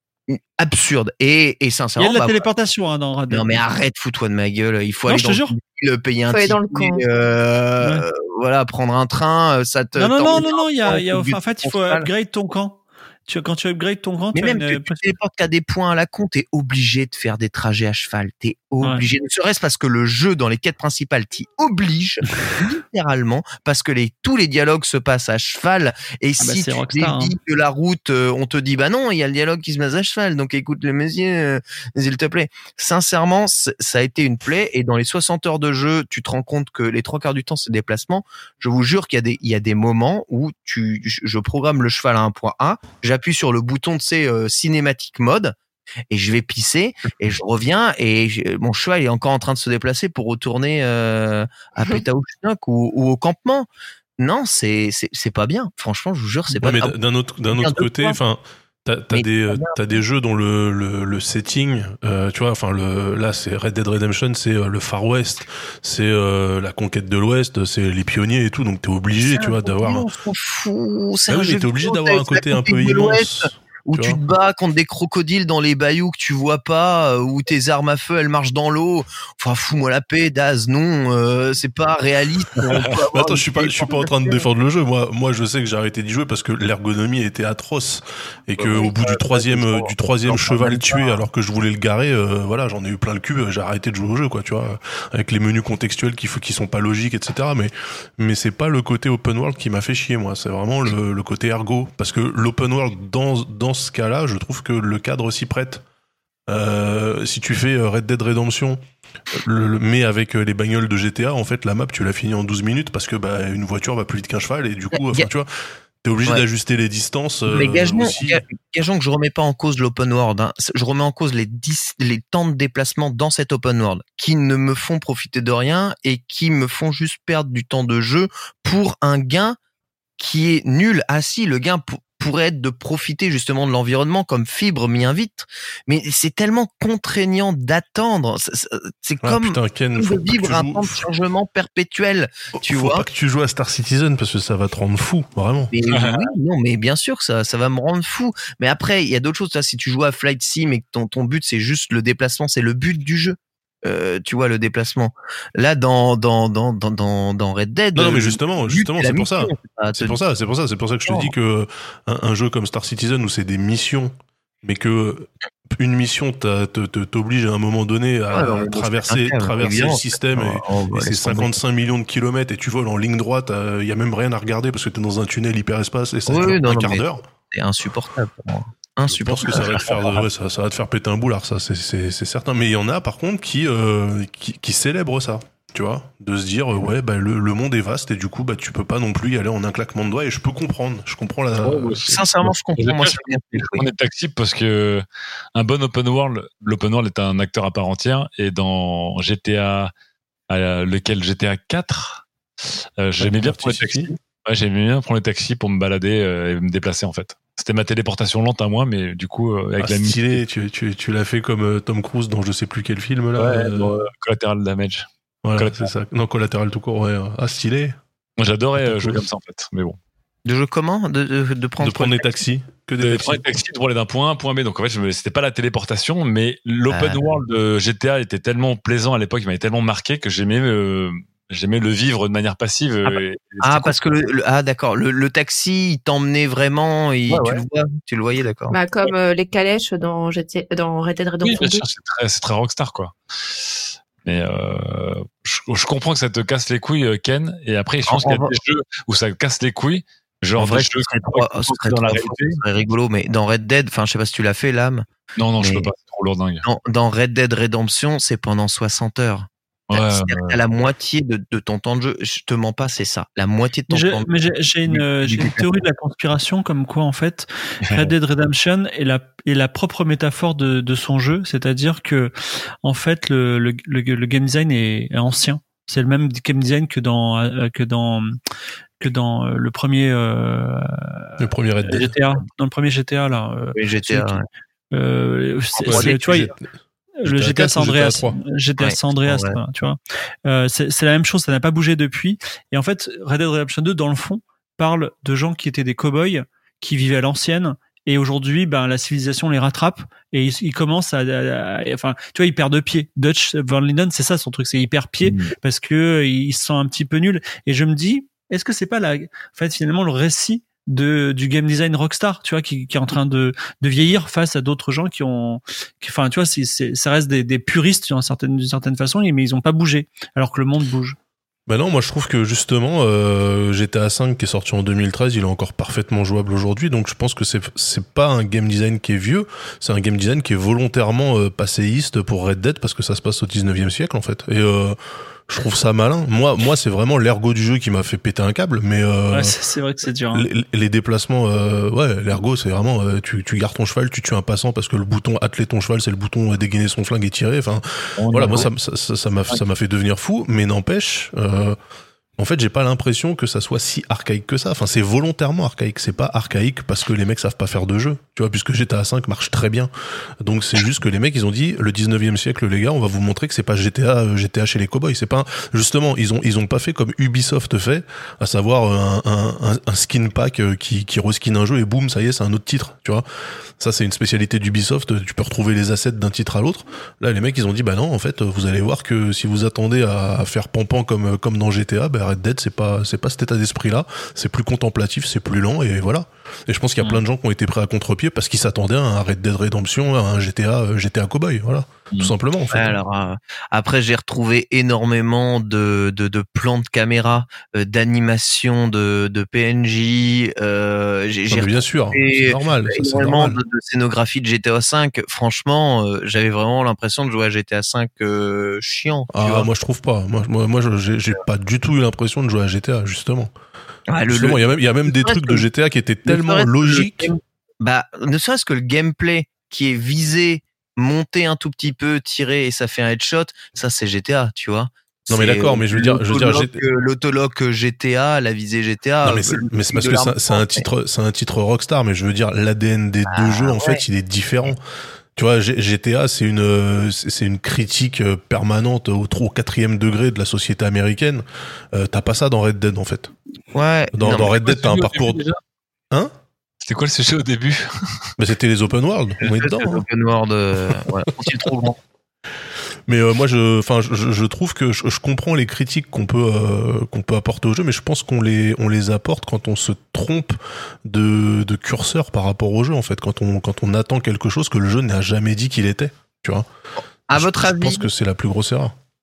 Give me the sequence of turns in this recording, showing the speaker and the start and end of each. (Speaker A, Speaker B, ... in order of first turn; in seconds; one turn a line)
Speaker A: 0.3-2.4
Speaker B: 2.0-3.7
Speaker A: 3.3-12.1
Speaker B: 5.1-5.5
Speaker C: 6.3-7.0
Speaker B: 7.8-8.1
Speaker B: 10.0-15.0
Speaker A: 14.3-45.5
Speaker B: 18.8-19.1
Speaker B: 26.4-27.3
Speaker A: 46.1-53.7
Speaker A: 54.2-57.0
Speaker D: 56.6-70.1
Speaker A: 57.5-58.2
Speaker A: 59.1-59.8
Speaker A: 69.2-84.1
Speaker D: 71.3-74.2
Speaker D: 82.7-105.8
Speaker A: 88.6-91.1
Speaker D: 106.5-108.8
Speaker D: 109.4-115.5
Speaker A: 115.0-115.3
Speaker D: 116.0-118.4
Speaker A: 117.5-129.6
Speaker A: 130.2-143.1
Speaker D: 139.2-141.1
Speaker D: 142.6-145.7
Speaker A: 145.7-160.2
Speaker E: 145.9-146.2
Speaker D: 157.9-177.2
Speaker A: 161.1-161.3
Speaker A: 168.3-171.5
Speaker A: 176.3-180.2
Speaker D: 179.1-192.3
Speaker E: 191.6-195.0
Speaker A: 192.0-193.9
Speaker E: 195.6-199.9
Speaker E: 200.5-202.2
Speaker E: 203.0-210.4
Speaker D: 203.2-204.1
Speaker D: 209.8-214.0
Speaker E: 213.4-215.9
Speaker D: 215.4-218.0
Speaker E: 218.4-220.0
Speaker D: 218.8-219.2
Speaker A: 220.4-222.3
Speaker D: 221.8-223.4
Speaker E: 223.0-234.1
Speaker A: 226.9-227.4
Speaker A: 233.1-238.8
Speaker E: 237.3-237.7
Speaker C: 238.7-241.8
Speaker E: 241.4-252.6
Speaker A: 248.1-248.5
Speaker A: 250.6-255.1
Speaker E: 255.4-256.6
Speaker A: 255.6-255.9
Speaker A: 256.6-265.7
Speaker E: 259.9-260.6
Speaker B: 263.9-272.3
Speaker E: 267.9-268.1
Speaker B: 272.8-278.4
Speaker B: 279.0-284.4
Speaker D: 281.4-282.1
Speaker A: 283.8-284.5
Speaker B: 284.9-286.5
Speaker A: 285.8-286.2
Speaker D: 285.9-286.7
Speaker B: 287.2-321.2
Speaker D: 287.2-288.4
Speaker A: 288.8-289.6
Speaker E: 305.2-305.5
Speaker D: 321.7-335.0
Speaker D: 335.5-339.6
Speaker B: 339.3-340.5
Speaker D: 340.3-351.8
Speaker A: 348.4-348.6
Speaker D: 352.4-373.2
Speaker D: 373.8-393.0
Speaker A: 392.7-409.7
Speaker D: 401.5-403.6
Speaker D: 409.3-413.5
Speaker A: 414.1-415.6
Speaker D: 414.3-417.3
Speaker A: 416.3-430.9
Speaker D: 425.3-426.8
Speaker D: 429.2-434.8
Speaker A: 433.3-434.0
Speaker D: 435.4-443.3
Speaker A: 443.7-444.6
Speaker D: 444.2-445.4
Speaker E: 444.6-445.6
Speaker E: 446.8-448.3
Speaker D: 448.4-450.0
Speaker A: 449.4-452.0
Speaker D: 453.1-466.7
Speaker A: 467.3-468.1
Speaker D: 467.3-468.9